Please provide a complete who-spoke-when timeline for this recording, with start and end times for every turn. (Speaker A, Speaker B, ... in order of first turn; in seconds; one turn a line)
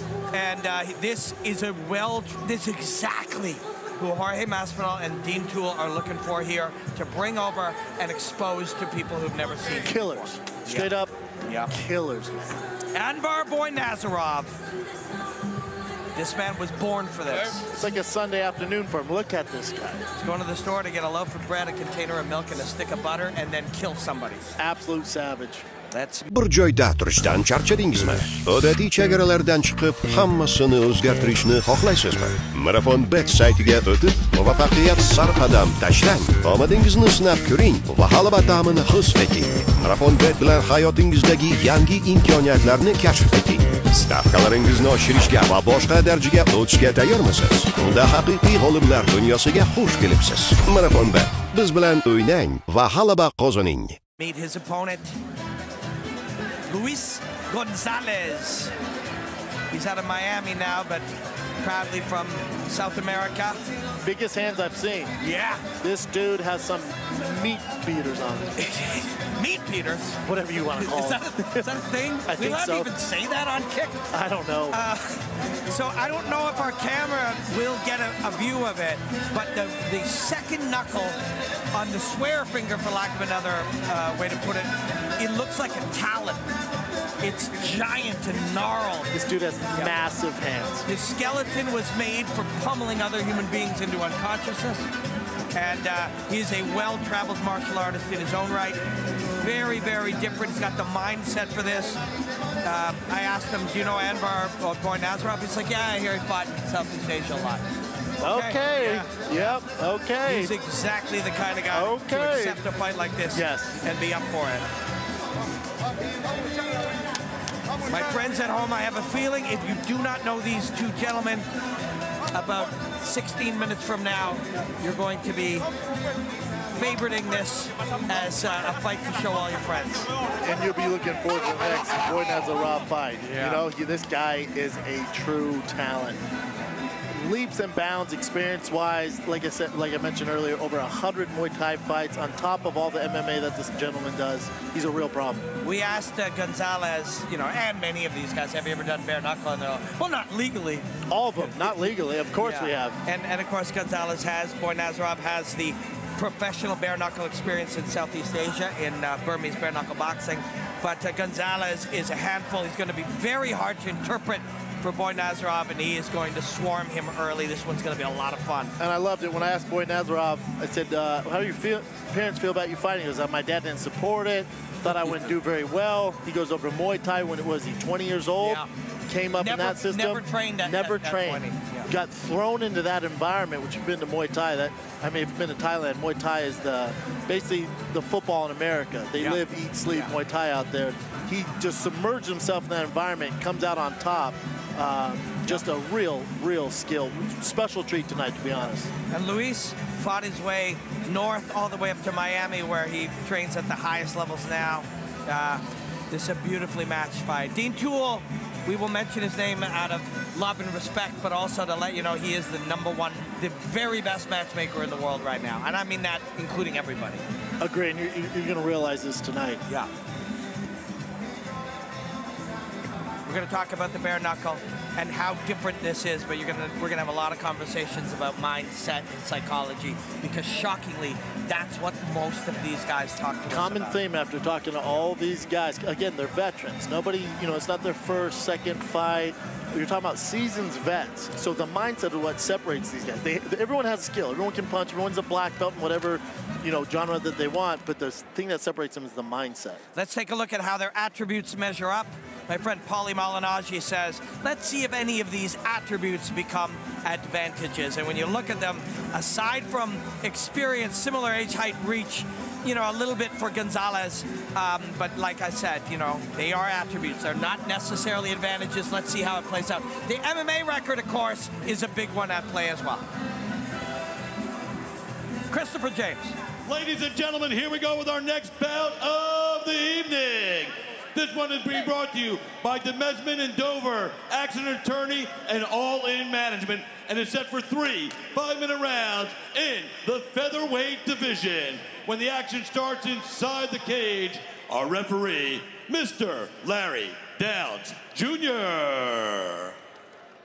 Speaker A: 0.3-11.7
Speaker B: 9.8-11.1
Speaker B: 11.7-12.3
Speaker A: 12.9-14.6
Speaker A: 16.1-17.7
Speaker B: 17.7-20.1
Speaker A: 20.1-24.5
Speaker B: 24.6-25.6
Speaker A: 25.9-26.3
Speaker C: 26.3-54.0
Speaker A: 54.2-55.2
Speaker A: 56.7-58.7
Speaker A: 59.7-63.6
Speaker B: 64.0-65.1
Speaker A: 65.2-65.6
Speaker B: 65.8-68.5
Speaker A: 68.6-70.2
Speaker B: 70.2-71.8
Speaker A: 70.8-74.0
Speaker B: 72.3-72.9
Speaker B: 74.1-74.8
Speaker A: 74.7-81.2
Speaker A: 81.7-86.4
Speaker A: 87.2-89.1
Speaker B: 89.1-90.9
Speaker A: 89.7-90.0
Speaker A: 90.9-94.9
Speaker A: 95.5-98.8
Speaker A: 99.4-102.0
Speaker A: 102.6-107.7
Speaker B: 108.2-110.5
Speaker A: 108.3-109.6
Speaker A: 110.2-114.7
Speaker B: 111.7-112.6
Speaker B: 113.3-113.8
Speaker A: 117.9-121.5
Speaker A: 122.3-125.7
Speaker A: 126.7-130.1
Speaker B: 130.4-136.2
Speaker A: 133.2-133.6
Speaker B: 137.1-145.4
Speaker A: 145.6-150.9
Speaker B: 151.1-153.0
Speaker A: 151.4-151.8
Speaker A: 152.4-168.7
Speaker B: 168.8-198.9
Speaker A: 174.8-175.3
Speaker A: 178.4-178.7
Speaker A: 179.4-181.9
Speaker A: 189.2-190.1
Speaker A: 199.1-217.2
Speaker B: 217.6-219.6
Speaker A: 223.2-234.0
Speaker B: 233.5-249.8
Speaker A: 249.9-273.1
Speaker A: 275.5-276.4
Speaker D: 276.7-299.7